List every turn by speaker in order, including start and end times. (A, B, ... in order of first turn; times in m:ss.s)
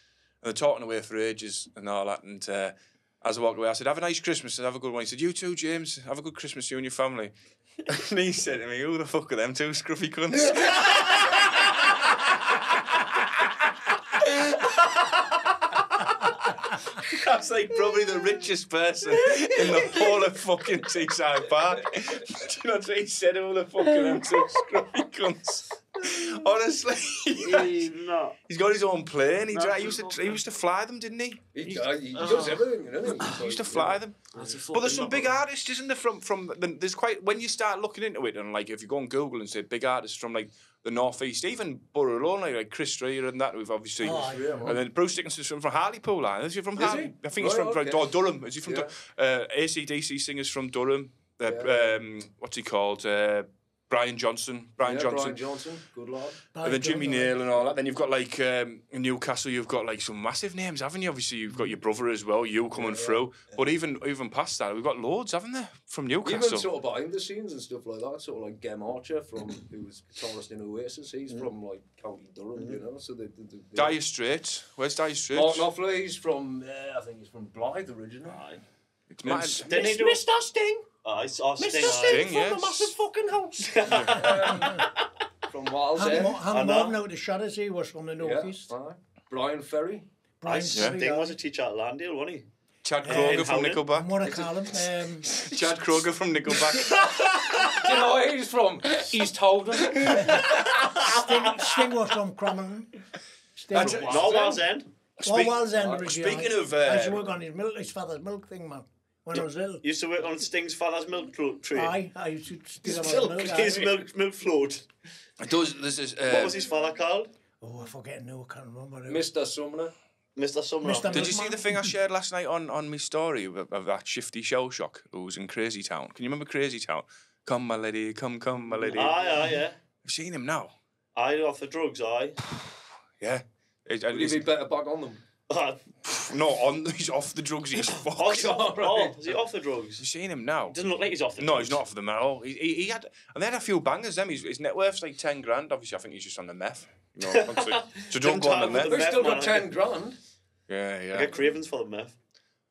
0:00.4-0:07.3 A
0:07.8-0:11.9 A
0:17.0-0:27.9 A
0:27.4-0:28.4 B
0:28.5-0:31.5 A
0:29.5-0:30.4 B
0:31.5-0:34.6 C
0:32.1-0:32.6 B
0:33.2-0:34.2 A
0:34.3-0:35.4 B
0:34.7-0:55.4 A
0:44.0-0:44.8 D
0:44.1-0:44.8 C
0:46.8-0:48.9 C
0:51.4-0:51.9 C
0:54.8-0:56.4 C
0:56.5-0:57.3 D
0:56.6-1:06.7 A
1:02.7-1:03.6 C
1:06.2-1:14.0 C
1:12.5-1:12.8 B
1:13.7-1:15.7 A
1:15.3-1:18.4 C
1:18.3-1:18.6 B
1:19.1-1:19.7 A
1:19.2-1:20.8 C
1:19.7-1:20.3 B
1:21.0-1:22.3 B
1:21.6-1:24.9 C
1:21.8-1:22.9 A
1:23.6-1:24.8 B
1:23.9-1:24.4 A
1:24.5-1:24.9 D
1:25.5-1:26.5 C
1:25.9-1:28.7 D
1:26.0-1:27.0 B
1:28.2-1:30.1 C
1:30.4-1:31.4 D
1:30.4-1:32.5 B
1:30.7-1:31.0 A
1:32.8-1:34.2 A
1:33.0-1:33.8 B
1:33.0-1:35.5 D
1:34.2-1:34.8 C
1:35.4-1:37.7 A
1:36.9-1:37.8 B
1:37.7-1:40.6 C
1:40.1-1:43.0 D
1:43.6-1:44.3 D
1:43.7-1:44.5 A
1:43.7-1:44.5 C
1:43.7-1:44.9 B
1:45.2-1:47.3 A
1:45.2-1:49.8 D
1:45.8-1:46.1 C
1:49.8-1:52.0 B
1:51.7-1:53.9 D
1:52.8-1:54.9 B
1:55.4-1:56.6 A
1:56.2-1:57.3 B
1:57.6-1:59.2 D
1:59.0-1:59.9 C
2:00.3-2:01.4 B
2:00.8-2:01.8 D
2:01.1-2:09.2 A
2:08.7-2:09.5 C
2:08.9-2:09.8 B
2:10.0-2:10.7 A
2:11.1-2:12.4 B
2:13.2-2:14.5 A
2:14.1-2:15.2 C
2:15.5-2:15.8 B
2:16.1-2:18.5 A
2:18.0-2:20.0 B
2:18.2-2:19.4 C
2:20.0-2:20.8 A
2:20.7-2:21.8 B
2:21.4-2:28.9 A
2:27.2-2:29.7 B
2:28.5-2:30.2 C
2:30.7-2:31.3 A
2:31.1-2:32.1 B